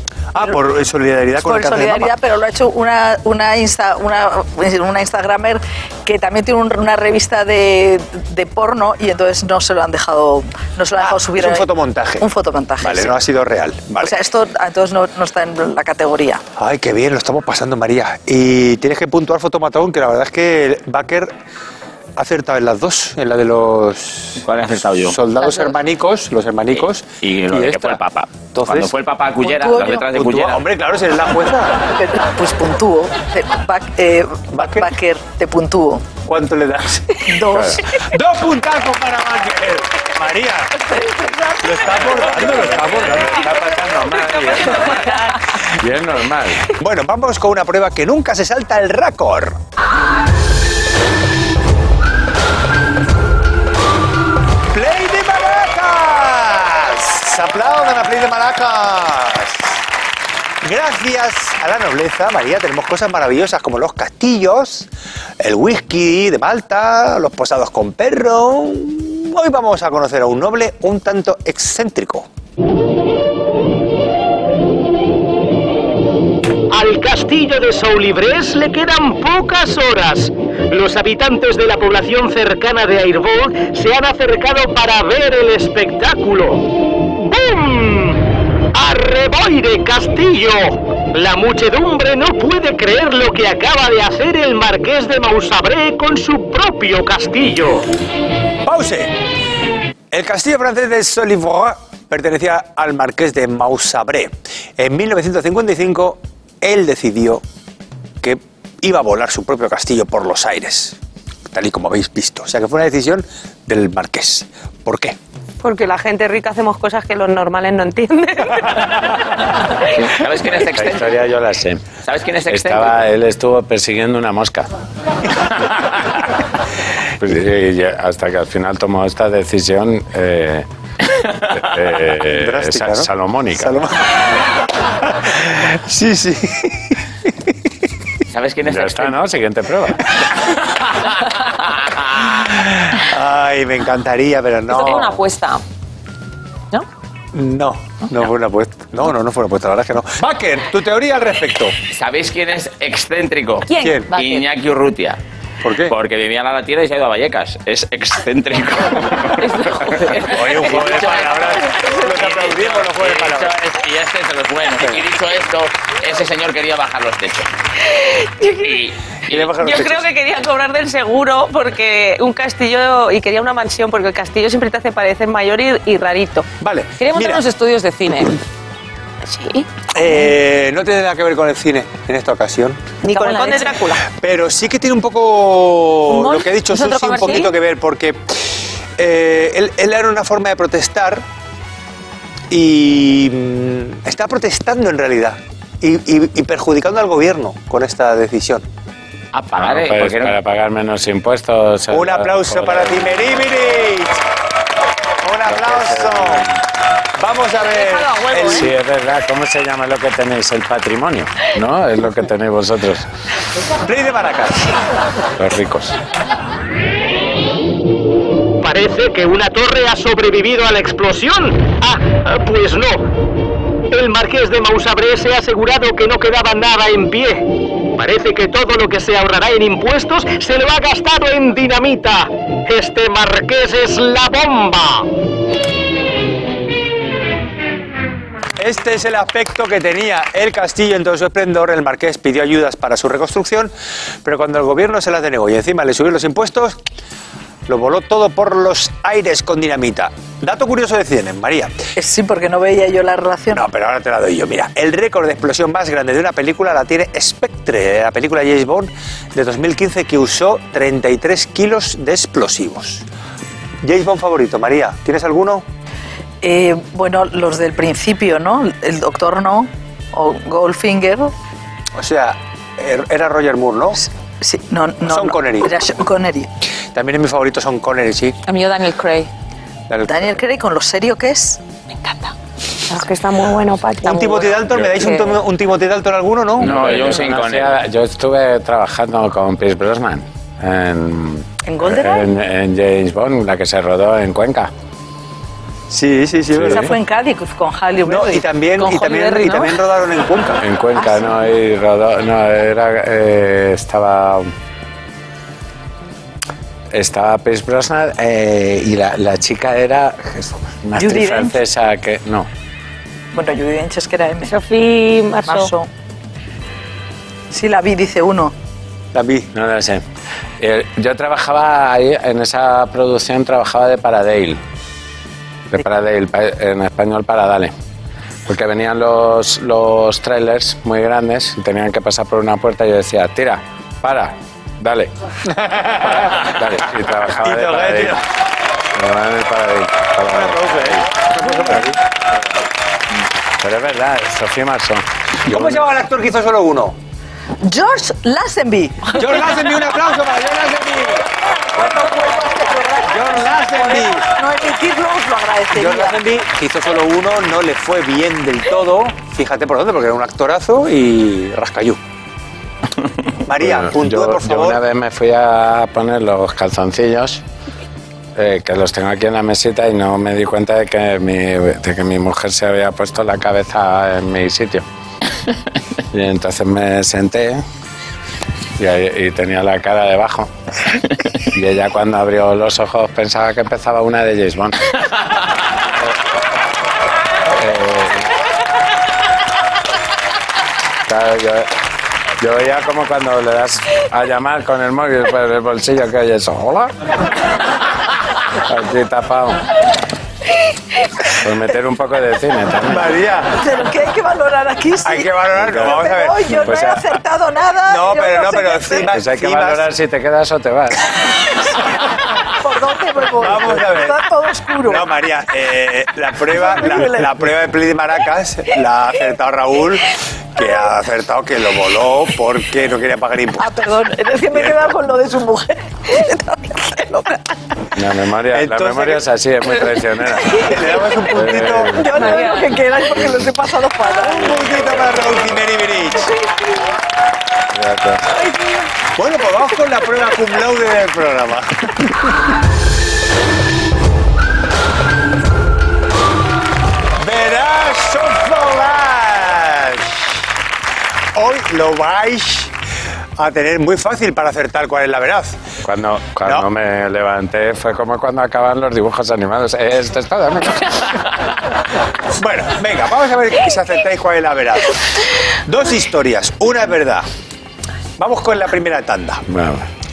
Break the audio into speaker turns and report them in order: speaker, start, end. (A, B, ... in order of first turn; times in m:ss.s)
0:00.3-0:02.1 A
0:01.4-0:11.7 B
0:11.0-0:12.2 A
0:12.2-0:13.2 B
0:12.8-0:14.1 A
0:14.0-0:16.4 B
0:16.6-0:21.3 A
0:22.2-0:24.4 A
0:24.4-0:25.2 C
0:25.0-0:28.0 A
0:26.8-0:30.6 C
0:28.5-0:28.9 A
0:29.4-0:30.0 B
0:30.1-0:31.8 A
0:32.0-0:36.0 B
0:34.5-0:34.9 A
0:36.2-0:40.9 A
0:37.2-0:37.8 B
0:37.5-0:37.8 D
0:41.0-0:41.6 E
0:41.6-0:44.1 A
0:42.1-0:45.0 D
0:43.1-0:45.4 E
0:45.8-0:46.7 D
0:46.7-0:49.6 A
0:54.7-0:59.8 A
1:00.6-1:04.9 A
1:05.4-1:12.3 A
1:16.7-1:28.2 F
1:28.7-1:37.9 F
1:38.6-1:39.1 A
1:40.1-1:47.4 A
1:48.2-1:51.0 A
1:51.5-1:55.2 A
1:55.6-1:59.3 E
1:59.8-2:01.3 C
2:00.6-2:01.8 D
2:02.0-2:03.0 C
2:02.5-2:04.7 D
2:07.2-2:10.7 D
2:11.5-2:13.8 D
2:12.3-2:14.4 A
2:15.0-2:17.0 A
2:18.3-2:19.2 C
2:18.6-2:20.2 D
2:20.8-2:22.0 C
2:22.2-2:25.2 A
2:24.7-2:25.6 G
2:27.3-2:31.8 A
2:31.9-2:35.2 C
2:33.7-2:34.4 G
2:33.8-2:34.1 A
2:35.6-2:35.9 A
2:35.9-2:47.5 C
2:39.4-2:42.0 G
2:40.3-2:43.5 A
2:48.0-2:48.8 E
2:48.6-2:49.5 C
2:49.3-2:50.1 A
2:49.6-2:56.5 E
2:56.6-2:57.4 A
2:57.0-2:58.4 G
2:59.9-3:02.9 A
3:03.0-3:04.0 G
3:03.1-3:04.0 E
3:04.1-3:11.2 A
3:06.1-3:07.5 G
3:12.5-3:18.6 A
3:19.3-3:20.4 C
3:19.5-3:23.4 D
3:21.9-3:24.1 A
3:25.2-3:26.5 A
3:25.4-3:26.5 D
3:27.2-3:28.7 A
3:27.9-3:28.3 E
3:28.4-3:33.1 D
3:33.8-3:34.7 A
3:35.4-3:36.0 D
3:38.6-3:43.0 F
3:43.9-3:55.1 F
3:58.6-4:03.7 A
4:04.2-4:06.8 A
4:07.7-4:11.8 A
4:12.0-4:13.6 B
4:13.5-4:23.0 A
4:23.8-4:25.6 A
4:26.4-4:31.3 B
4:32.0-4:34.0 A
4:34.0-4:36.5 B
4:35.0-4:35.7 A
4:36.9-4:38.4 A
4:38.5-4:39.3 G
4:39.9-4:40.3 A
4:40.0-4:41.6 B
4:41.9-4:42.3 G
4:42.9-4:44.5 E
4:44.0-4:46.9 A
4:45.0-4:45.4 G
4:46.6-4:47.8 C
4:46.6-4:54.7 D
4:51.6-4:52.3 B
4:55.9-4:56.9 A
4:56.5-4:56.9 D
4:56.6-4:58.4 B
4:58.0-5:00.6 A
4:58.8-4:59.7 G
5:00.6-5:04.5 D
5:06.9-5:12.5 D
5:11.0-5:11.6 B
5:13.3-5:14.5 B
5:14.4-5:15.7 E
5:15.4-5:15.9 B
5:17.5-5:18.5 B
5:19.1-5:19.5 A
5:19.5-5:20.0 D
5:20.6-5:24.6 D
5:25.7-5:27.7 D
5:28.4-5:35.1 D
5:35.5-5:36.5 A
5:36.2-5:38.2 D
5:37.2-5:38.2 A
5:38.9-5:41.0 D
5:40.3-5:42.1 A
5:43.6-5:45.8 D
5:45.4-5:47.0 A
5:47.6-5:49.4 B
5:49.1-5:51.3 A
5:51.6-5:56.2 B
5:53.0-5:54.2 A
5:55.7-6:02.0 A
6:03.4-6:04.8 A
6:03.6-6:07.4 D
6:08.3-6:14.8 D
6:16.1-6:17.6 D
6:18.8-6:20.5 D
6:21.4-6:25.0 D
6:27.5-6:28.3 D
6:31.0-6:31.7 D
6:32.4-6:36.9 D
6:38.5-6:39.6 D
6:41.4-6:43.1 D
6:42.9-6:43.6 A
6:43.6-6:49.1 B
6:45.0-6:46.9 A
6:45.5-6:46.0 D
6:46.5-6:47.0 D
6:47.9-6:49.8 A
6:49.1-6:51.2 D
6:52.5-6:55.1 B
6:53.4-6:54.2 A
6:54.8-7:03.8 A
6:56.6-6:57.2 B
7:03.6-7:07.4 B
7:07.9-7:10.7 D
7:08.5-7:09.2 A
7:10.5-7:12.1 A
7:11.3-7:12.3 D
7:11.8-7:14.6 B
7:12.2-7:12.6 G
7:13.2-7:13.4 D
7:14.2-7:16.4 A
7:14.4-7:15.6 D
7:17.7-7:18.3 D
7:19.2-7:22.3 A
7:27.2-7:30.3 A
7:31.3-7:32.7 A
7:33.4-7:35.6 A
7:35.8-7:41.2 D
7:42.3-7:47.3 A
7:48.2-7:49.4 A
7:49.5-7:49.9 D